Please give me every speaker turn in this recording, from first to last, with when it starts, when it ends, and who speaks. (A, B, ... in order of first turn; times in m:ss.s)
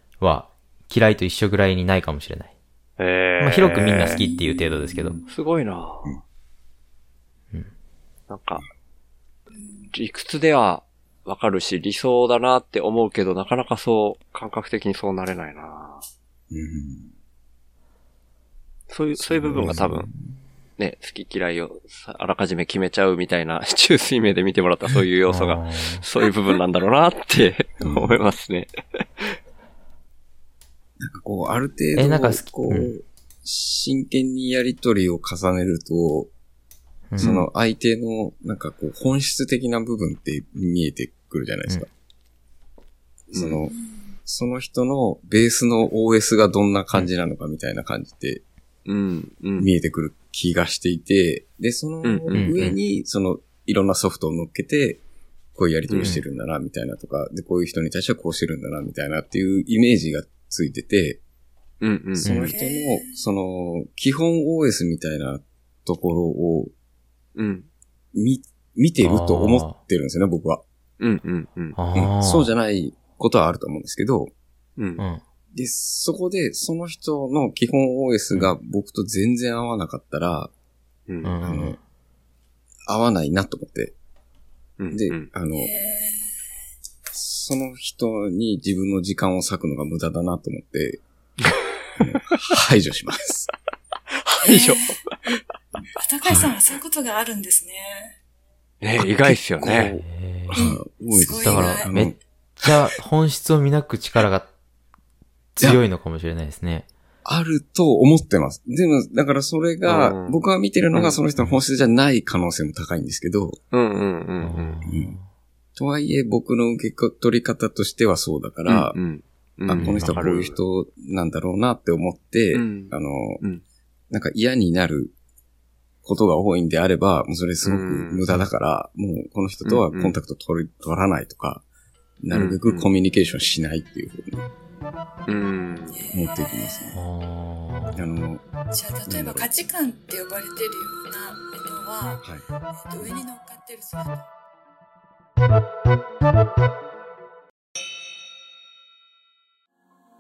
0:00.2-0:02.5 A
0:03.0-0:04.2 B
0:03.4-0:05.2 A
0:04.2-0:05.2 C
0:05.3-0:06.2 B
0:08.3-0:08.6 B
0:09.9-0:16.0 B
0:16.5-0:17.1 C
0:18.9-0:20.1 B
0:19.2-0:20.3 C
0:20.8-0:29.4 B
0:25.3-0:26.0 A
0:27.8-0:28.2 C
0:31.0-0:36.3 C
0:32.0-0:32.9 A
0:37.2-0:41.9 C
0:37.2-0:37.5 B
0:43.3-0:43.8 C
0:43.3-0:43.6 B
0:43.7-0:44.2 D
0:44.3-0:48.4 C
0:48.9-0:49.7 B
0:49.6-0:55.0 C
0:52.0-0:52.7 B
0:52.3-0:52.7 A
0:55.6-1:01.2 C
0:55.9-0:56.2 B
1:01.8-1:02.5 B
1:02.2-1:06.7 C
1:02.2-1:02.5 A
1:02.4-1:03.2 D
1:07.4-1:07.7 B
1:08.1-1:10.6 C
1:09.0-1:09.8 A
1:11.0-1:11.8 B
1:11.8-1:12.5 A
1:11.9-1:14.3 C
1:14.8-1:15.0 B
1:15.5-1:20.5 C
1:21.1-1:21.4 B
1:21.2-1:21.8 A
1:21.4-1:21.8 C
1:22.9-1:24.0 C
1:24.8-1:25.3 B
1:24.9-1:25.7 C
1:25.6-1:26.3 D
1:27.1-1:31.0 C
1:32.0-1:33.5 C
1:34.2-1:35.1 B
1:34.4-1:35.0 D
1:36.0-1:38.1 D
1:36.3-1:36.6 C
1:38.8-1:40.0 B
1:39.0-1:42.2 C
1:40.0-1:40.7 A
1:40.5-1:41.9 D
1:41.3-1:44.5 A
1:45.6-1:46.9 A
1:47.2-1:53.6 C
1:49.8-1:50.4 B
1:50.9-1:51.2 B
1:53.7-1:54.8 B
1:54.4-1:55.2 A
1:54.9-1:55.2 C
1:55.8-1:59.0 C
1:58.7-2:00.6 B
1:59.7-2:03.4 C
1:59.8-2:00.2 A
2:02.5-2:03.6 B
2:04.1-2:05.1 C
2:06.0-2:11.6 C
2:07.6-2:08.2 B
2:09.6-2:10.2 B
2:12.2-2:14.5 C
2:12.3-2:12.9 B
2:15.3-2:16.0 B
2:15.9-2:17.0 D
2:16.1-2:17.0 C
2:16.9-2:18.0 A
2:17.9-2:18.4 C
2:18.7-2:24.3 D
2:19.1-2:19.5 C